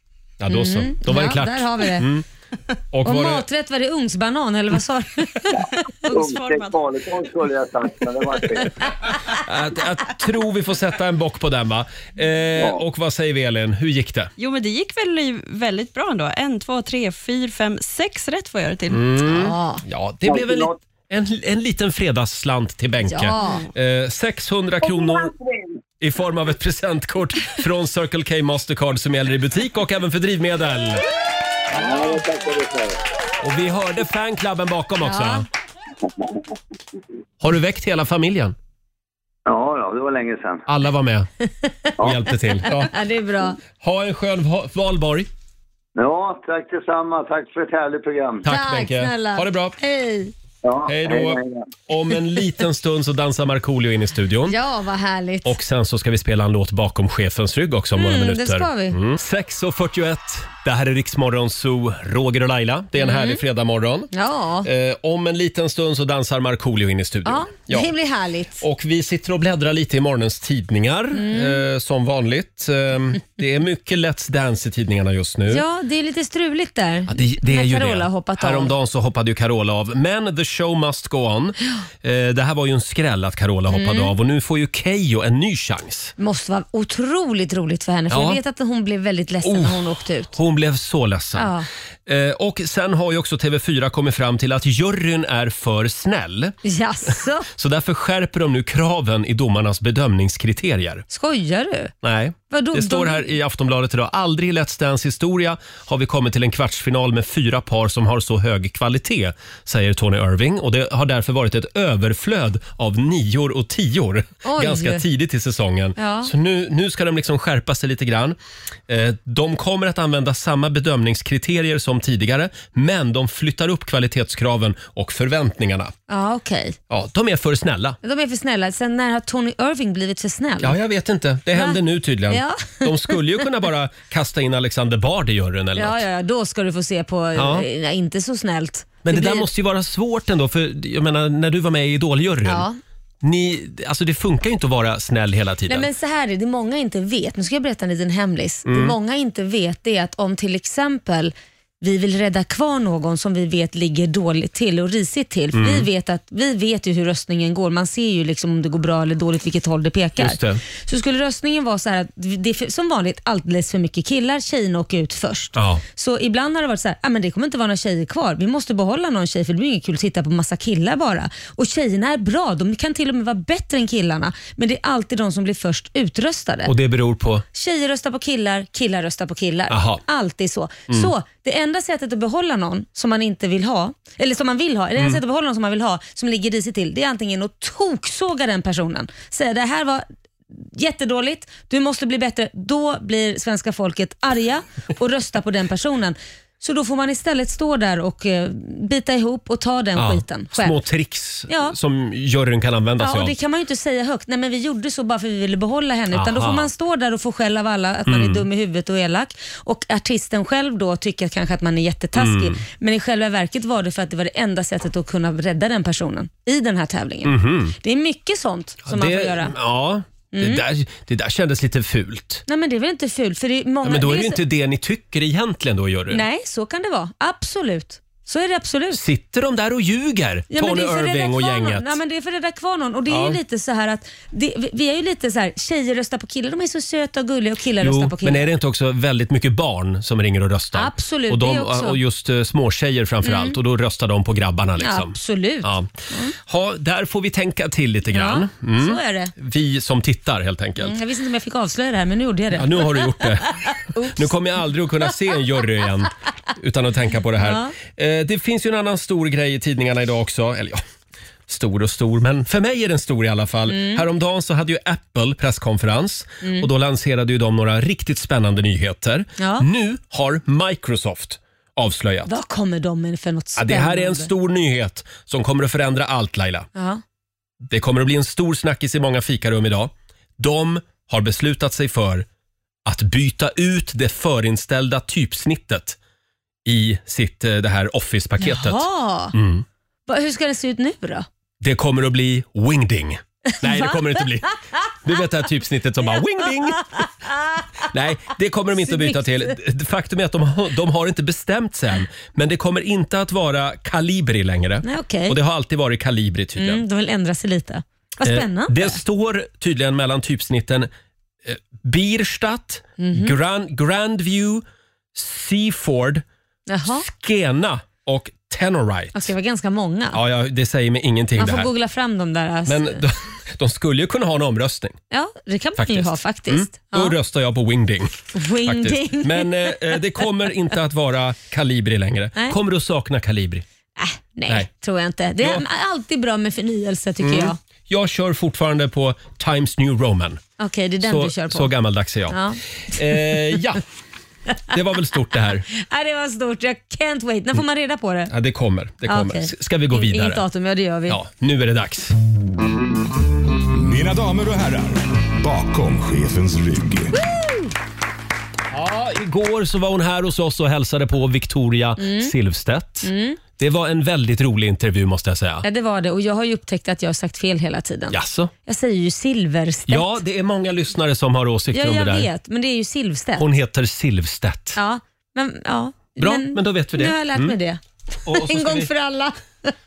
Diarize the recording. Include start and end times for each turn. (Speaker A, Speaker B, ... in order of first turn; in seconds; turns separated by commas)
Speaker A: 0.4-2.3, Speaker B: 0.5-2.1, Speaker A: 2.9-3.5, Speaker B: 3.0-5.6, Speaker C: 6.0-6.8, Speaker D: 6.1-8.8, Speaker A: 9.3-14.3, Speaker C: 14.4-19.0, Speaker A: 18.9-25.3, Speaker B: 19.3-19.8, Speaker D: 20.2-20.8, Speaker B: 23.1-23.6, Speaker D: 25.1-25.7, Speaker A: 26.0-31.0, Speaker D: 31.7-33.0, Speaker A: 33.4-35.5, Speaker B: 35.0-35.5, Speaker A: 37.4-38.6, Speaker D: 39.5-40.6, Speaker A: 40.7-41.3, Speaker B: 41.6-42.0, Speaker A: 42.0-42.9, Speaker D: 42.0-42.3, Speaker B: 42.6-43.6, Speaker A: 43.7-45.3, Speaker D: 46.0-48.5, Speaker A: 48.4-49.8, Speaker B: 48.5-50.3, Speaker D: 50.6-51.6, Speaker A: 50.9-54.6, Speaker B: 54.5-55.5, Speaker A: 55.5-64.1, Speaker B: 58.0-59.0, Speaker B: 63.0-63.4, Speaker B: 64.1-64.7, Speaker A: 64.6-67.9, Speaker B: 67.2-68.6, Speaker A: 68.6-75.7, Speaker B: 71.1-71.6, Speaker B: 75.5-78.7, Speaker A: 77.1-86.1, Speaker B: 83.7-84.1, Speaker B: 86.2-90.4, Speaker A: 88.1-88.4, Speaker A: 89.4-91.5, Speaker B: 91.4-91.7, Speaker A: 92.1-96.6, Speaker B: 96.6-97.5, Speaker A: 97.1-101.0, Speaker B: 101.1-101.9, Speaker A: 102.0-118.4, Speaker B: 102.5-103.3, Speaker B: 114.4-115.0, Speaker B: 116.0-116.3, Speaker A: 118.9-125.9, Speaker B: 126.1-126.8, Speaker A: 126.9-128.0, Speaker B: 128.0-130.8, Speaker A: 130.6-136.0, Speaker B: 131.5-133.2, Speaker B: 135.8-139.5, Speaker A: 137.4-137.7, Speaker A: 139.1-142.7, Speaker B: 142.5-142.8, Speaker A: 143.2-145.9, Speaker B: 145.7-176.7, Speaker A: 148.7-148.9, Speaker A: 155.5-155.9, Speaker A: 160.2-160.6, Speaker A: 165.6-165.8, Speaker A: 176.7-177.4, Speaker B: 177.5-200.8, Speaker A: 179.7-180.0, Speaker A: 200.0-203.3, Speaker B: 201.5-201.7, Speaker B: 203.0-219.5, Speaker A: 206.1-206.7, Speaker A: 208.1-208.5, Speaker A: 212.2-212.6, Speaker A: 217.2-217.8, Speaker A: 218.9-222.4, Speaker B: 220.3-220.6, Speaker B: 222.5-224.4, Speaker A: 223.8-226.2, Speaker B: 226.1-229.0, Speaker A: 228.9-232.0, Speaker B: 230.5-238.5, Speaker A: 233.1-233.4, Speaker A: 237.8-251.0, Speaker B: 240.7-242.0, Speaker B: 243.2-243.6, Speaker B: 244.8-246.3, Speaker B: 248.1-249.3, Speaker B: 250.8-254.3, Speaker A: 252.5-260.8, Speaker B: 257.4-257.7, Speaker A: 261.5-272.3, Speaker B: 263.7-264.0, Speaker B: 266.4-266.7, Speaker B: 269.4-269.6, Speaker B: 272.2-274.3, Speaker A: 273.6-276.7, Speaker B: 276.8-277.0, Speaker A: 277.6-282.2, Speaker A: 282.9-286.0, Speaker A: 286.6-289.6, Speaker B: 288.4-289.3, Speaker B: 290.1-291.2, Speaker A: 291.6-297.1, Speaker B: 293.6-294.2, Speaker B: 297.0-297.6, Speaker A: 297.9-306.8, Speaker B: 298.8-299.5, Speaker B: 304.8-305.4, Speaker B: 306.6-309.0, Speaker A: 308.2-310.9, Speaker A: 311.4-314.6, Speaker B: 313.0-313.4, Speaker A: 315.1-316.2, Speaker B: 316.7-317.1, Speaker A: 316.9-319.3, Speaker B: 319.1-320.2, Speaker A: 320.1-321.7, Speaker B: 321.4-323.0, Speaker A: 322.6-325.0, Speaker B: 325.1-327.1, Speaker A: 325.8-333.6, Speaker B: 328.3-329.7, Speaker B: 334.0-337.6, Speaker A: 337.2-340.4, Speaker B: 340.6-341.7, Speaker A: 341.0-343.8, Speaker B: 342.3-342.6, Speaker A: 344.7-345.6, Speaker B: 345.7-348.3, Speaker A: 348.3-350.4, Speaker B: 349.1-351.2, Speaker A: 351.1-352.1, Speaker E: 353.8-357.1, Speaker B: 357.1-357.7, Speaker A: 358.7-365.6, Speaker B: 362.0-362.3, Speaker B: 363.0-363.4, Speaker B: 365.6-370.2, Speaker A: 368.1-368.5, Speaker A: 369.9-372.3, Speaker B: 371.7-373.5, Speaker A: 373.4-374.8, Speaker B: 374.8-379.7, Speaker A: 376.2-377.6, Speaker A: 378.2-378.9